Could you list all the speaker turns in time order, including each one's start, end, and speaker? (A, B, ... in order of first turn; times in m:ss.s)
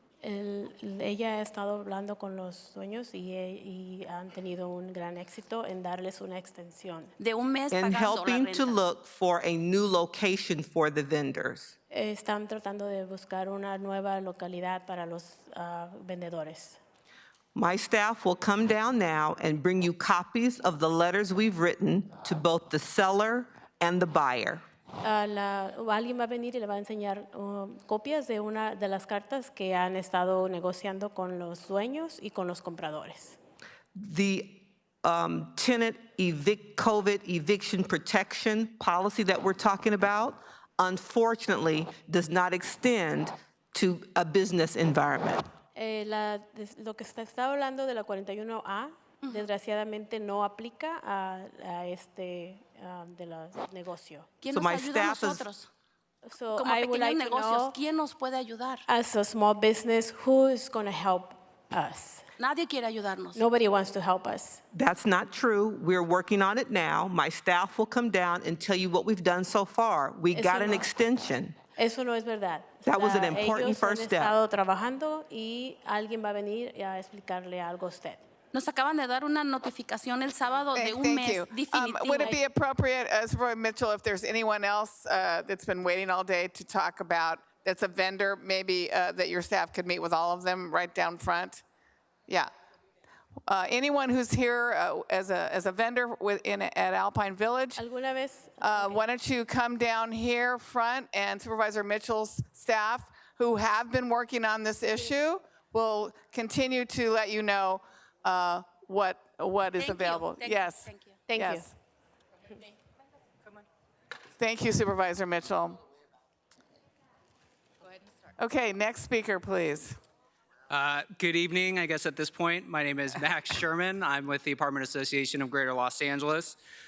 0:00.2-0:07.1 A
0:07.2-0:08.8 B
0:07.7-0:11.7 C
0:11.9-0:16.8 A
0:17.5-0:24.6 C
0:25.0-0:33.4 A
0:33.9-0:45.4 C
0:45.7-0:54.3 A
0:49.2-0:49.5 B
0:54.4-0:55.7 B
0:54.5-0:55.4 C
0:56.2-0:57.8 A
0:56.5-0:58.8 B
0:58.9-1:02.2 A
1:02.4-1:03.4 B
1:03.4-1:04.6 A
1:04.7-1:11.6 C
1:10.3-1:10.8 A
1:11.8-1:18.2 A
1:12.8-1:14.4 C
1:18.5-1:22.4 B
1:20.7-1:31.6 D
1:33.5-1:37.8 D
1:37.8-1:39.0 A
1:38.6-1:51.7 D
1:49.8-1:51.2 B
1:51.3-1:51.7 A
1:54.4-1:55.8 D
1:58.4-2:00.0 D
2:00.7-2:06.6 E